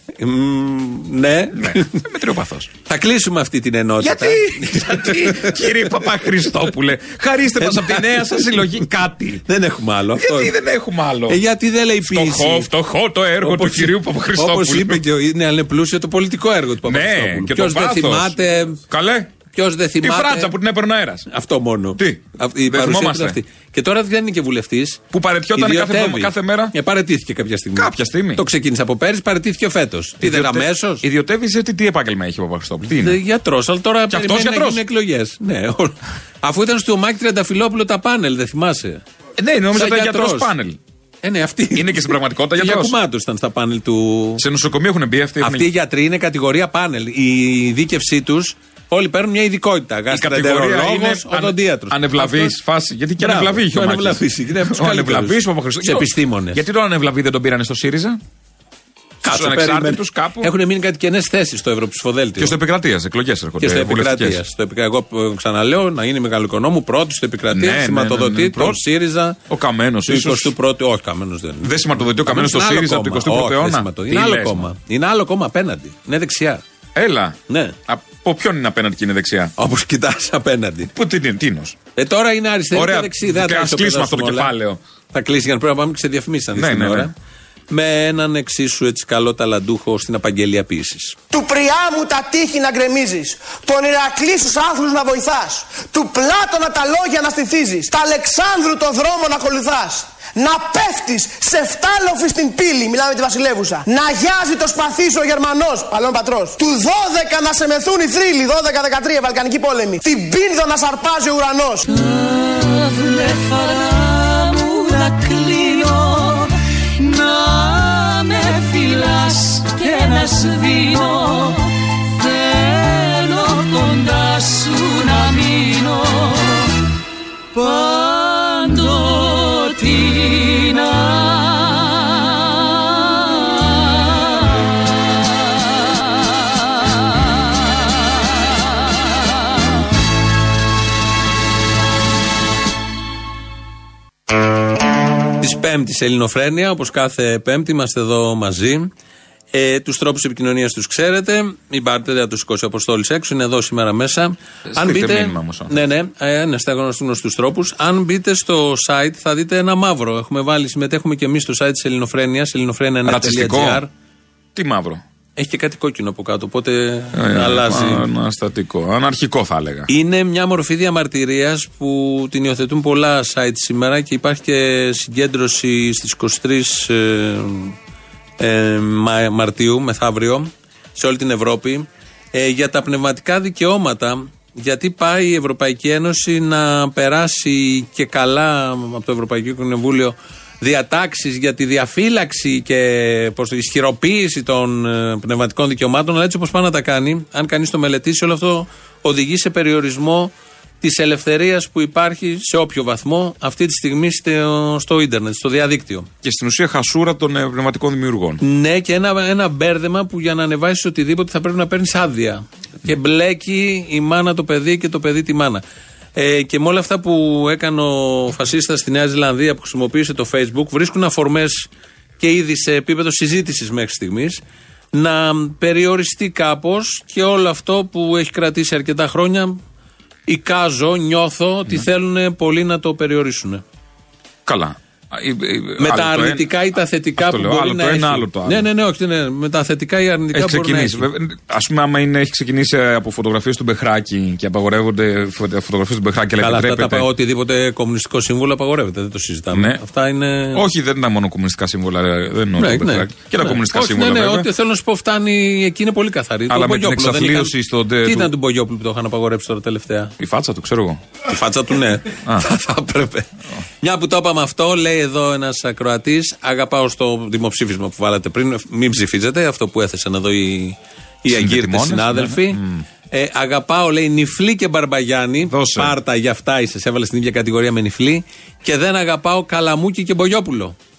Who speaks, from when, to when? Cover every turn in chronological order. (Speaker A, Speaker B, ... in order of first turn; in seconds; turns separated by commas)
Speaker A: 0.2-2.0, Speaker B: 1.6-2.7, Speaker A: 2.9-6.1, Speaker B: 4.0-9.4, Speaker A: 7.6-8.6, Speaker A: 9.4-10.5, Speaker B: 10.2-11.4, Speaker A: 11.3-12.7, Speaker B: 12.0-15.0, Speaker A: 13.4-18.8, Speaker B: 16.8-18.3, Speaker B: 18.9-19.3, Speaker A: 19.5-20.5, Speaker B: 20.0-21.2, Speaker A: 21.3-25.0, Speaker B: 22.0-23.4, Speaker B: 25.1-26.7, Speaker A: 25.5-31.0, Speaker B: 27.8-28.4, Speaker B: 30.2-33.2, Speaker A: 33.0-39.0, Speaker B: 34.1-34.8, Speaker B: 39.4-40.8, Speaker A: 39.7-40.5, Speaker A: 41.2-44.4, Speaker B: 41.7-42.9, Speaker B: 44.4-45.7, Speaker A: 45.4-52.5, Speaker B: 50.1-58.2, Speaker A: 53.2-56.6, Speaker A: 59.2-62.5, Speaker B: 59.2-60.5, Speaker B: 62.4-64.4, Speaker A: 63.6-69.4, Speaker B: 67.5-68.8, Speaker B: 69.5-70.5, Speaker A: 70.1-76.6, Speaker B: 71.6-74.7, Speaker B: 77.0-79.5, Speaker A: 77.5-77.8, Speaker A: 79.6-80.9, Speaker B: 80.9-81.8, Speaker A: 82.0-84.5, Speaker B: 82.7-84.8, Speaker A: 85.1-87.1, Speaker B: 86.5-87.1, Speaker A: 87.7-91.1, Speaker C: 91.3-111.8, Speaker D: 111.8-126.7, Speaker D: 127.5-132.2, Speaker A: 145.4-148.9, Speaker A: 149.5-163.9, Speaker B: 154.7-155.8, Speaker B: 163.0-163.8, Speaker B: 164.5-165.0, Speaker A: 165.4-168.0, Speaker B: 167.2-169.9, Speaker A: 169.9-177.7, Speaker A: 178.4-206.1, Speaker B: 206.2-208.4, Speaker A: 208.4-215.6, Speaker A: 216.2-221.7, Speaker A: 222.2-224.4, Speaker A: 224.9-229.6, Speaker A: 230.3-233.6, Speaker B: 234.4-238.7, Speaker A: 235.8-241.1, Speaker B: 240.3-247.1, Speaker A: 246.4-250.6, Speaker B: 249.5-249.8, Speaker B: 250.5-254.5, Speaker A: 252.6-257.5, Speaker B: 256.5-258.3, Speaker A: 258.0-260.1, Speaker B: 260.2-261.0, Speaker A: 261.3-263.3, Speaker A: 263.8-280.8, Speaker B: 271.3-272.8, Speaker B: 275.5-275.9